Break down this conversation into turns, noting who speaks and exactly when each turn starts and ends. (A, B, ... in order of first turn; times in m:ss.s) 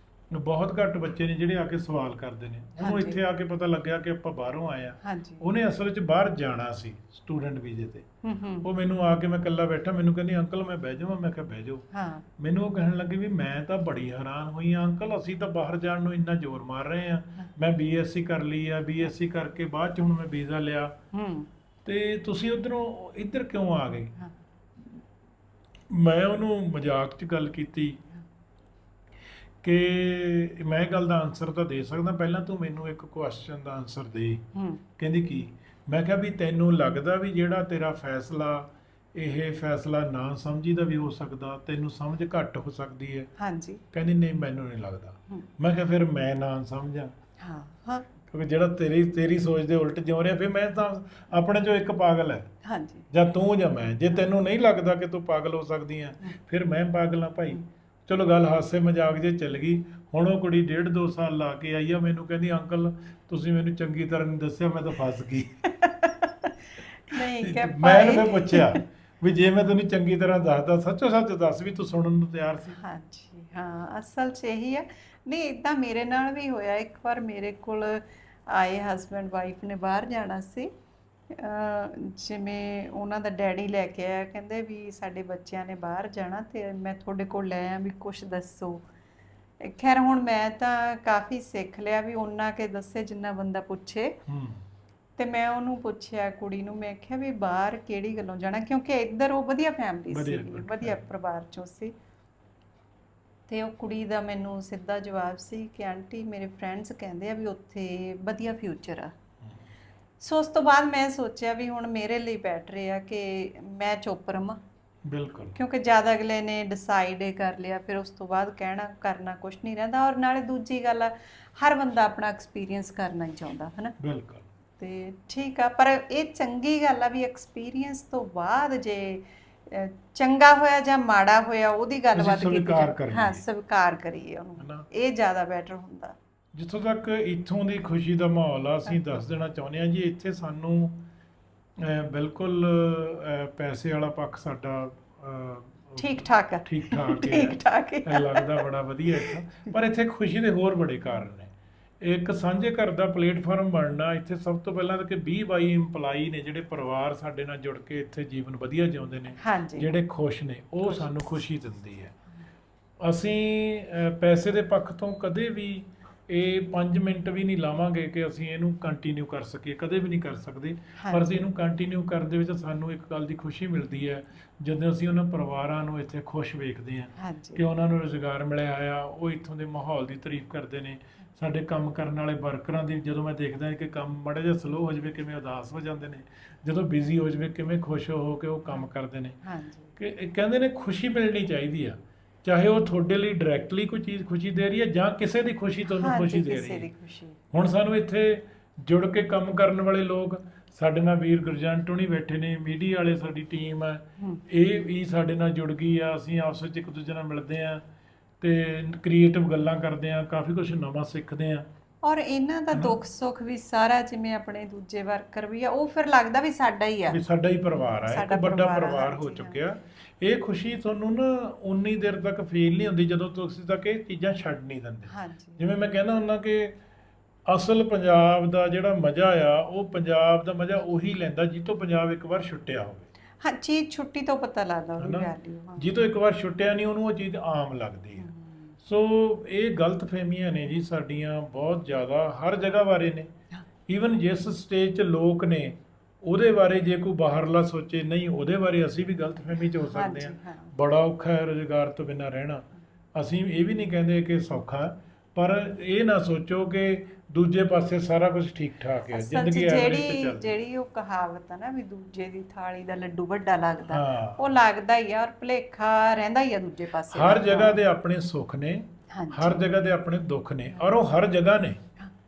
0:00.3-0:08.0 A
0:02.8-0:03.2 B
0:05.0-0:05.5 B
0:08.2-0:08.7 B
0:08.6-0:11.8 A
0:11.9-0:12.3 B
0:12.4-0:21.0 A
0:21.1-0:21.5 B
0:21.8-0:24.1 A
0:25.9-0:28.0 A
0:29.6-0:34.4 A
0:34.5-0:34.8 B
0:35.0-0:43.3 A
0:43.4-0:43.8 B
0:43.9-0:47.1 A
0:47.4-0:48.0 B
0:48.2-0:52.5 A
0:52.6-0:53.1 B
0:53.1-1:05.6 A
1:05.6-1:08.8 B
1:07.1-1:12.8 A
1:12.7-1:20.7 B
1:21.3-1:28.8 B
1:29.6-1:34.2 B
1:34.3-1:34.6 A
1:35.2-1:41.9 B
1:40.1-1:41.0 A
1:43.5-1:49.1 B
1:50.2-1:54.6 B
1:55.0-1:55.5 A
1:55.5-2:04.0 B
2:04.0-2:04.4 A
2:04.8-2:16.2 B
2:12.1-2:13.4 A
2:14.6-2:14.9 A
2:16.5-2:21.0 A
2:21.8-2:42.1 A
2:26.0-2:29.4 B
2:39.4-2:39.9 B
2:40.8-2:41.1 B
2:43.0-3:09.4 A
2:51.0-2:51.3 B
2:57.2-2:57.6 B
3:09.4-3:10.0 B
3:10.0-3:16.9 A
3:15.9-3:17.4 B
3:17.5-3:27.8 A
3:28.4-3:31.6 A
3:32.0-3:37.2 B
3:37.1-3:46.8 A
3:38.0-3:39.6 B
3:45.1-3:45.6 B
3:47.5-3:53.1 A
3:53.4-3:56.0 B
3:55.0-3:58.3 A
3:58.2-3:58.8 B
3:58.8-4:03.3 A
4:03.9-4:20.5 A
4:09.8-4:10.7 B
4:19.1-4:27.8 B
4:23.9-4:24.4 A
4:27.1-4:31.8 A
4:29.1-4:29.7 B
4:30.7-4:31.0 B